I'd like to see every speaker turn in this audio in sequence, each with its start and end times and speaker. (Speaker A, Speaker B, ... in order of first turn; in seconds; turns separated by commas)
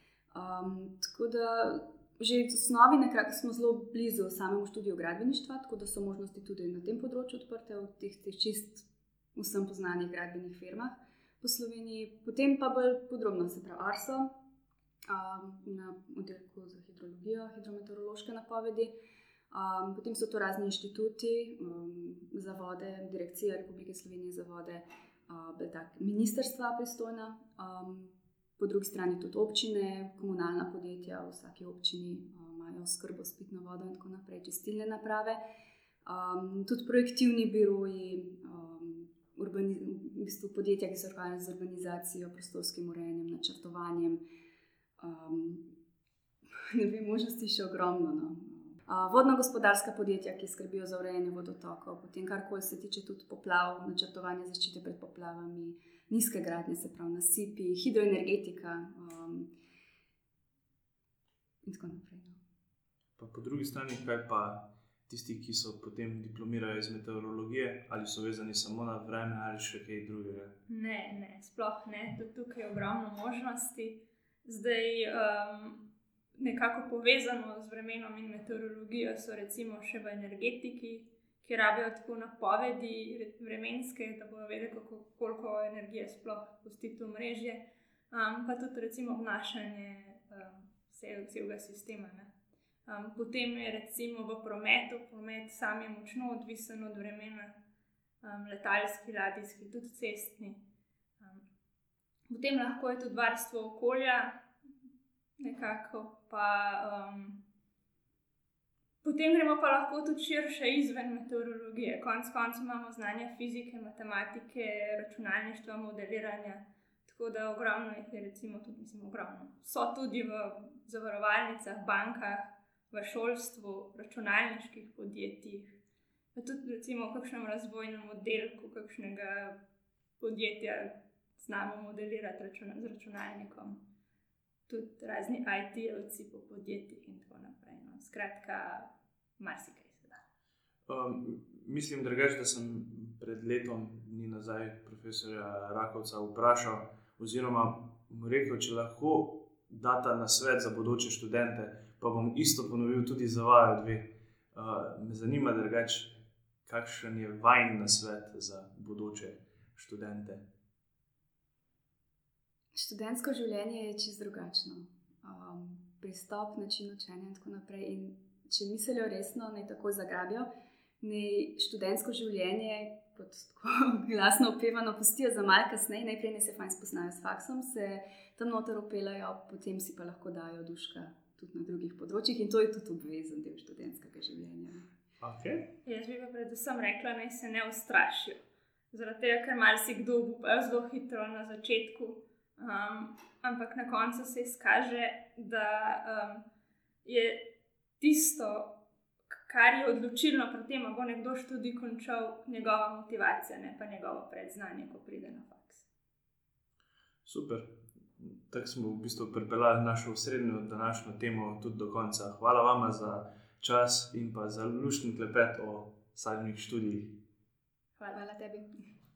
Speaker A: 0.3-14.3, Speaker A: 15.1-18.9, Speaker A: 19.5-35.4, Speaker A: 36.0-44.2, Speaker A: 45.0-45.7, Speaker A: 46.7-59.5, Speaker A: 61.6-62.4, Speaker B: 63.2-70.5, Speaker C: 70.7-75.8, Speaker C: 76.4-92.3, Speaker C: 92.9-97.6, Speaker C: 98.2-100.6, Speaker C: 101.2-101.5, Speaker C: 102.3-104.4, Speaker C: 105.4-107.4, Speaker C: 109.0-125.8, Speaker C: 126.3-129.6, Speaker C: 130.2-133.8, Speaker C: 134.7-140.2, Speaker B: 140.9-160.4, Speaker A: 162.7-170.5, Speaker A: 171.0-184.9, Speaker B: 185.2-185.7, Speaker C: 185.9-188.4, Speaker C: 188.9-196.4, Speaker C: 197.1-197.4, Speaker C: 198.0-198.7, Speaker C: 199.5-205.9, Speaker B: 207.3-217.2, Speaker A: 218.0-218.7